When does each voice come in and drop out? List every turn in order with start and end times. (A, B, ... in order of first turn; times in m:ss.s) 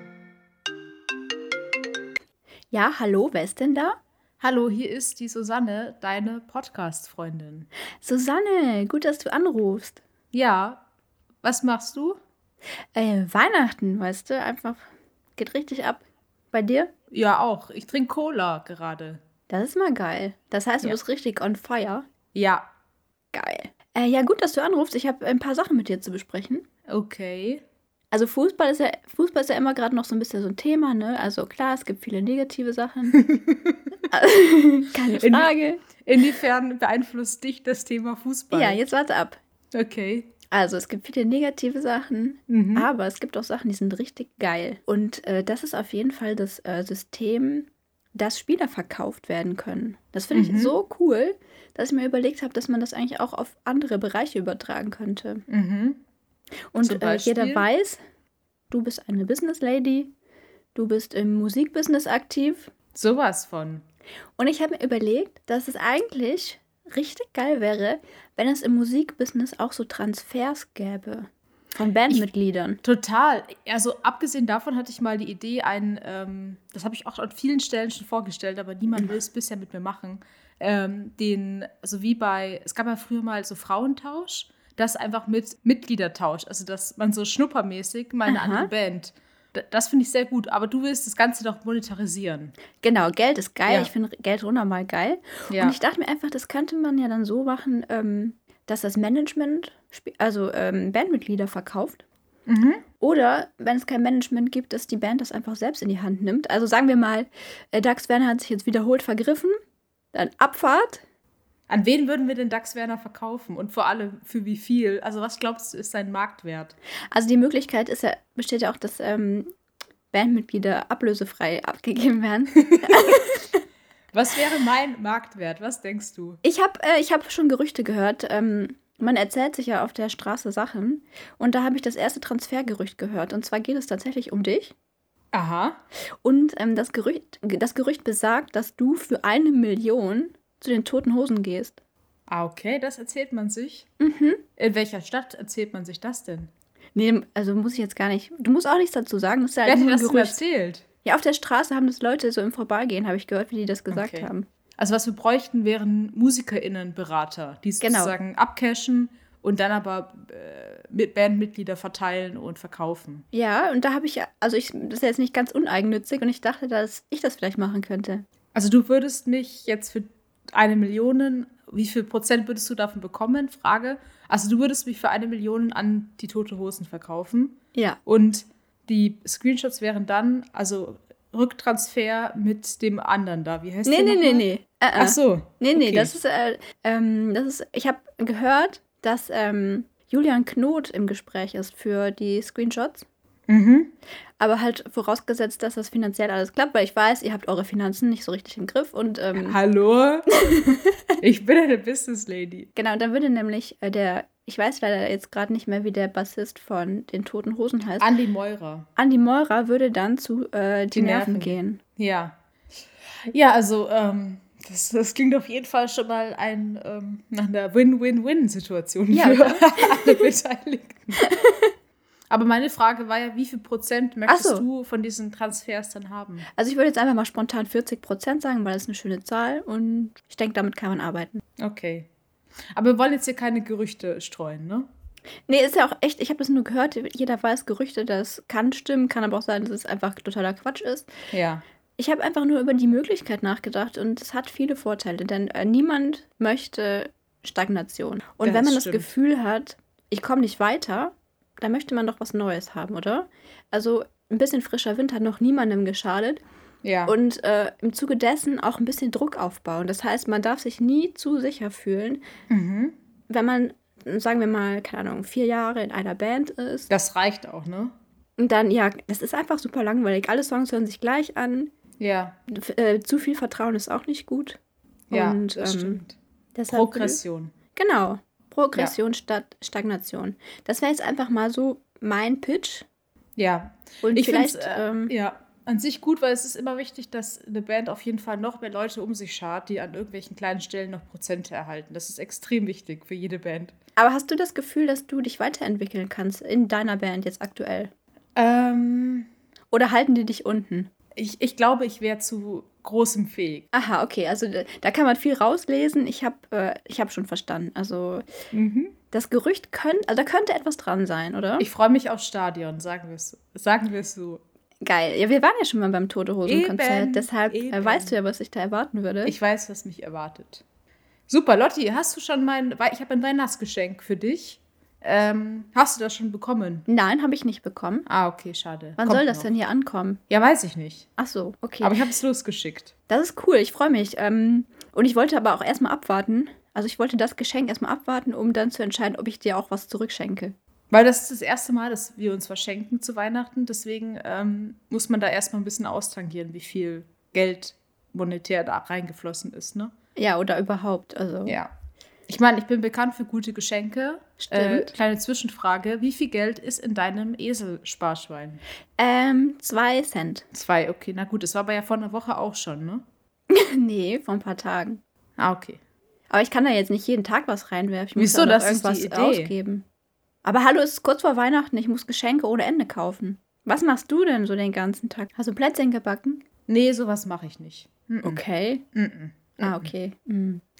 0:02.7-0:04.0 A
0:04.4-0:07.7 B
0:08.0-0:10.0 A
0:10.3-0:10.8 B
0:11.4-0:12.2 B
0:12.9-0:16.9 A
0:17.1-0:19.2 B
0:19.5-0:22.1 A
0:22.3-0:22.6 B
0:23.3-0:26.6 A
0:26.9-0:27.6 B
0:28.1-0:33.3 A
0:34.1-0:35.9 A
0:35.1-0:35.5 B
0:36.0-0:38.8 B
0:38.5-0:39.4 A
0:39.7-0:40.3 B
0:40.5-0:55.4 A
0:42.5-0:42.9 B
0:50.3-0:50.8 B
0:55.5-0:56.0 B
0:56.7-0:58.0 A
0:56.8-0:57.6 B
0:58.7-1:00.1 A
1:00.7-1:02.7 A
1:02.9-1:03.8 B
1:04.4-1:12.8 A
1:12.8-1:32.5 B
1:28.3-1:28.7 A
1:32.8-1:42.0 A
1:35.5-1:35.8 B
1:42.5-1:42.8 B
1:43.0-1:49.6 A
1:50.1-1:51.0 A
1:51.7-1:56.7 B
1:57.1-1:59.5 A
2:00.1-2:03.6 A
2:04.1-2:06.4 B
2:06.4-2:14.7 A
2:15.3-2:15.8 B
2:16.2-2:21.8 A
2:22.3-2:23.9 B
2:24.0-2:24.4 A
2:24.6-2:26.5 B
2:26.9-2:30.4 A
2:29.6-2:30.8 B
2:31.0-2:34.5 A
2:33.9-2:43.2 B
2:37.8-2:38.1 A
2:43.3-2:48.2 A
2:48.5-3:06.2 B
2:57.7-2:58.0 A
3:03.8-3:13.0 A
3:13.5-3:13.9 B
3:14.4-3:19.6 A
3:19.4-3:20.3 B
3:20.3-3:21.0 A
3:21.2-3:22.7 B
3:22.8-3:28.1 A
3:28.0-3:28.9 B
3:29.0-3:31.8 A
3:30.9-3:32.4 B
3:33.3-3:41.3 B
3:39.1-3:40.3 A
3:41.2-3:41.6 A
3:42.3-3:46.4 B
3:44.3-3:44.6 A
3:46.5-3:51.4 A
3:51.6-3:52.1 B
3:52.7-3:54.9 B
3:55.5-4:01.1 A
4:01.3-4:01.6 B
4:02.0-4:16.4 A
4:08.4-4:09.1 B
4:16.8-4:17.1 B
4:17.0-4:22.2 A
4:22.5-4:23.0 B
4:23.3-4:26.9 A
4:26.9-4:27.9 B
4:28.4-4:31.7 A
4:32.0-4:32.4 B
4:32.5-4:34.6 A
4:35.1-4:36.2 B
4:35.1-4:36.0 A
4:36.5-4:37.2 A
4:36.7-4:37.5 B
4:37.7-4:42.9 A
4:43.4-4:53.7 B
4:44.0-4:45.1 A
4:54.0-4:57.9 A
4:58.4-4:59.3 B
4:59.7-5:00.9 A
5:01.2-5:03.7 B
5:03.7-5:08.3 A
5:08.5-5:08.9 B
5:09.1-5:11.7 A
5:11.6-5:14.4 B
5:14.8-5:19.4 A
5:16.4-5:18.2 B
5:19.2-5:20.6 B
5:21.3-5:26.8 B
5:26.9-5:28.0 A
5:28.1-5:29.5 B
5:29.0-5:30.2 A
5:30.3-5:31.1 B
5:31.2-5:32.0 A
5:31.8-5:32.9 B
5:33.1-5:40.6 A
5:40.9-5:49.9 B
5:50.2-5:51.6 A
5:51.4-5:51.7 B
5:52.3-5:58.6 B
5:54.4-5:54.9 A
5:59.0-6:00.4 A
6:00.5-6:03.0 B
6:03.5-6:05.0 A
6:05.4-6:05.8 B
6:06.3-6:09.8 A
6:08.2-6:09.5 B
6:10.4-6:16.4 A
6:16.7-6:18.4 B
6:18.2-6:18.8 A
6:18.9-6:19.9 B
6:19.6-6:20.6 A